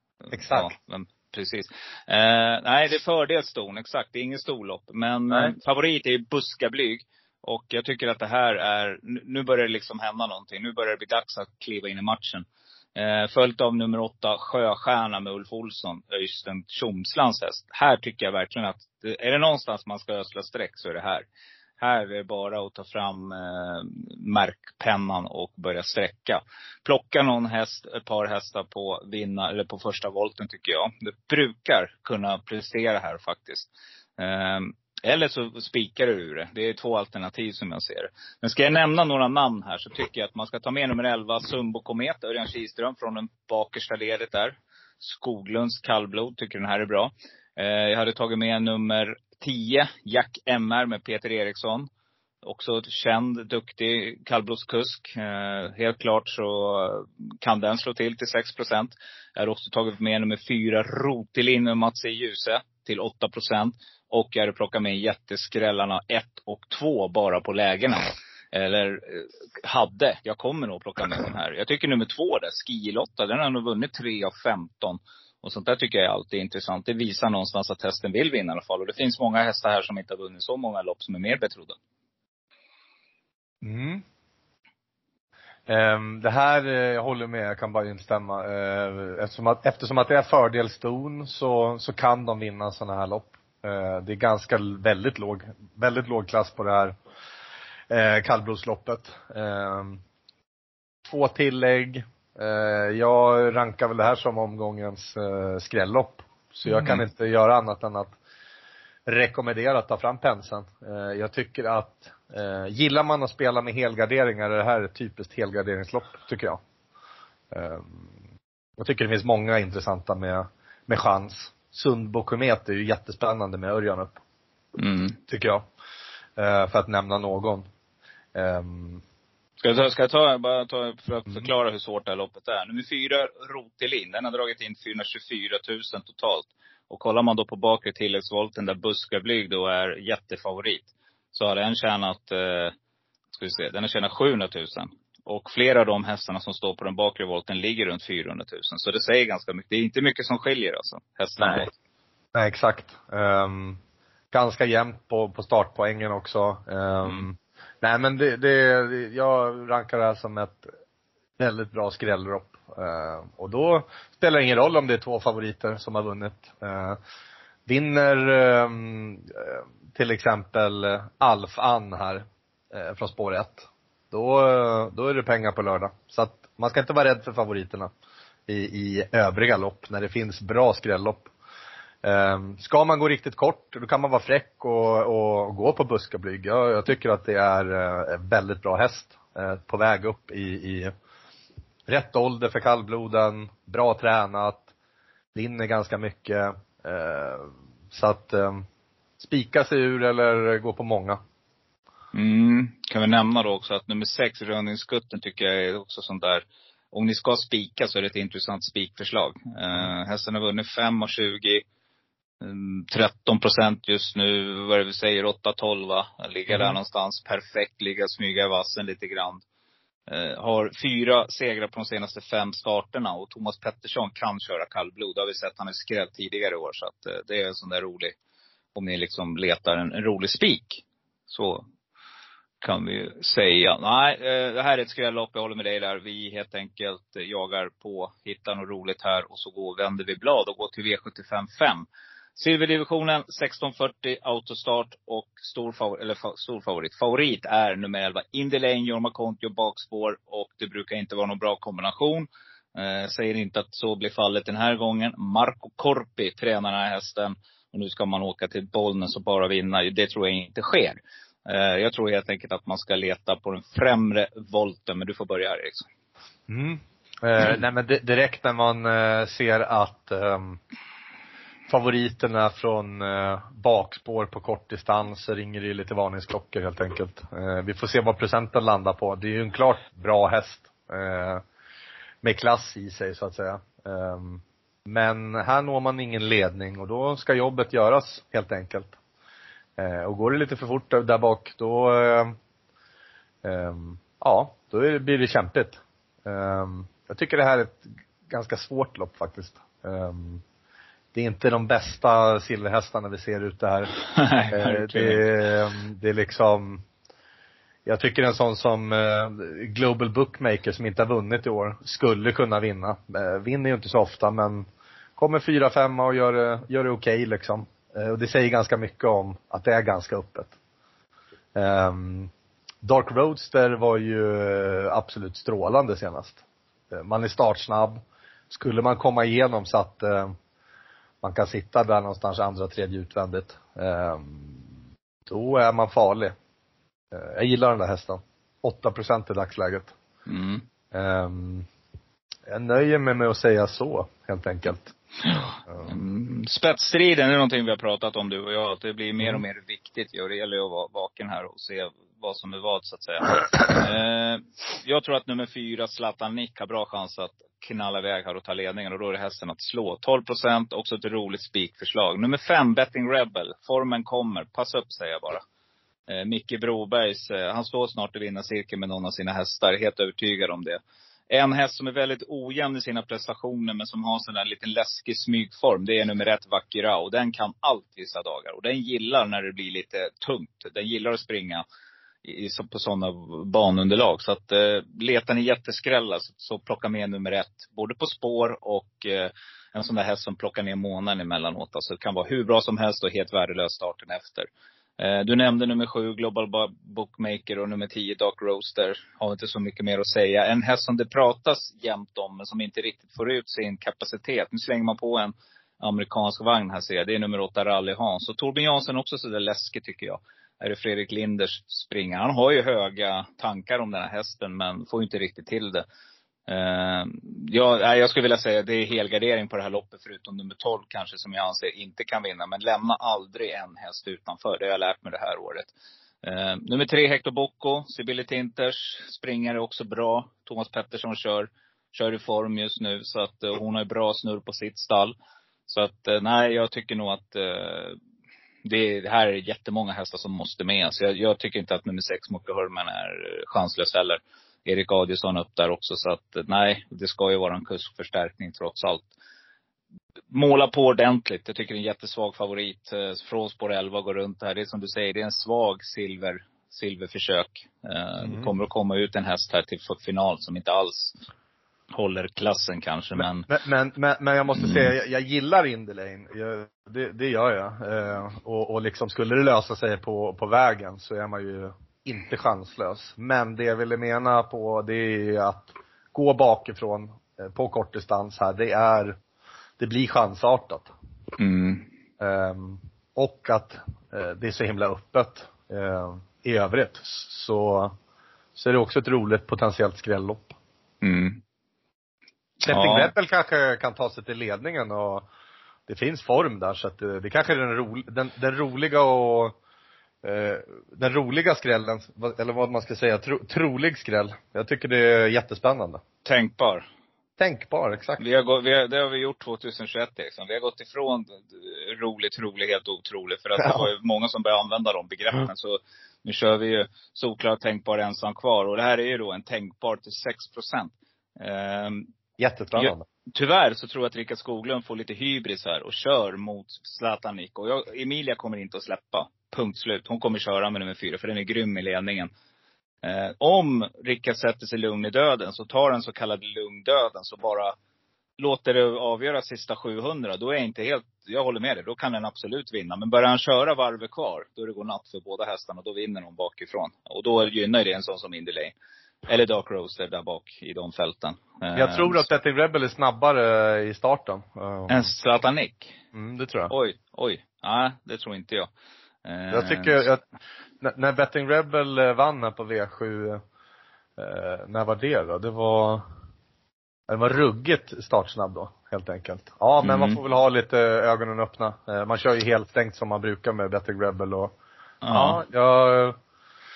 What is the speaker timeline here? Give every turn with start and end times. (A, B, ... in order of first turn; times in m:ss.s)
0:00.3-0:21.2 A
0:00.3-0:00.7 B
0:21.8-0:51.9 A
0:52.4-1:21.8 A
1:23.6-1:24.0 B
1:25.7-1:37.0 B
1:37.9-1:40.0 B
1:41.0-1:48.1 B
1:46.7-1:47.0 A
1:49.0-1:56.6 B
1:57.5-1:58.1 B
1:58.8-2:04.2 B
2:04.8-2:05.2 A
2:05.3-2:05.6 B
2:06.4-2:07.7 B
2:08.3-2:09.0 B
2:09.6-2:22.7 A
2:23.3-2:31.7 A
2:31.4-2:31.6 B
2:32.3-2:33.8 B
2:34.3-2:40.7 B
2:41.4-2:47.0 B
2:47.7-2:57.9 B
2:58.5-3:01.3 B
3:02.0-3:10.9 B
3:11.9-3:14.7 B
3:15.3-3:18.6 B
3:19.2-3:21.2 B
3:22.1-3:31.6 A
3:32.4-3:39.4 A
3:36.5-3:36.8 B
3:40.1-3:48.1 A
3:48.7-3:51.6 A
3:52.6-4:01.8 A
4:02.4-4:25.9 A
4:26.5-4:30.6 B
4:31.7-4:41.4 B
4:42.2-4:49.0 B
4:49.8-4:52.4 B
4:53.4-5:00.4 B
5:01.1-5:04.0 B
5:04.1-5:05.3 A
5:04.5-5:06.8 B
5:07.8-5:20.5 B
5:21.5-5:22.3 B
5:22.8-5:30.3 B
5:31.2-5:34.6 B
5:35.3-5:36.3 B
5:37.1-5:39.9 B
5:40.3-5:40.6 A
5:40.9-5:41.7 B
5:42.5-5:44.9 B
5:45.2-6:05.4 A
6:06.1-6:21.6 A
6:22.2-6:55.8 A
6:56.5-7:05.7 A
7:06.2-7:15.1 A
7:15.7-7:18.0 A
7:18.6-7:29.1 A
7:30.3-7:41.2 A
7:38.2-7:38.5 B
7:41.9-7:43.5 A
7:43.2-7:59.2 B
7:44.6-7:44.9 A
7:59.8-8:00.9 B
8:01.4-8:01.9 A
8:02.2-8:07.9 B
8:08.6-8:10.5 B
8:11.0-8:11.4 A
8:12.6-8:15.2 B
8:12.6-8:13.1 A
8:15.9-8:19.5 B
8:20.2-8:26.0 B
8:26.2-8:26.8 A
8:27.4-8:28.2 B
8:28.2-8:42.1 A
8:33.6-8:33.9 B
8:42.4-8:43.0 B
8:42.8-8:52.3 A
8:53.0-8:57.7 A
8:58.4-9:08.7 A
9:09.3-9:12.2 A
9:11.7-9:15.1 B
9:14.9-9:16.0 A
9:16.1-9:16.7 B
9:16.7-9:18.7 A
9:19.2-9:20.1 A
9:19.5-9:20.2 B
9:20.8-9:23.4 B
9:24.2-9:26.0 B
9:27.1-9:34.5 B
9:29.8-9:30.2 A
9:35.0-9:35.4 A
9:35.1-9:36.2 B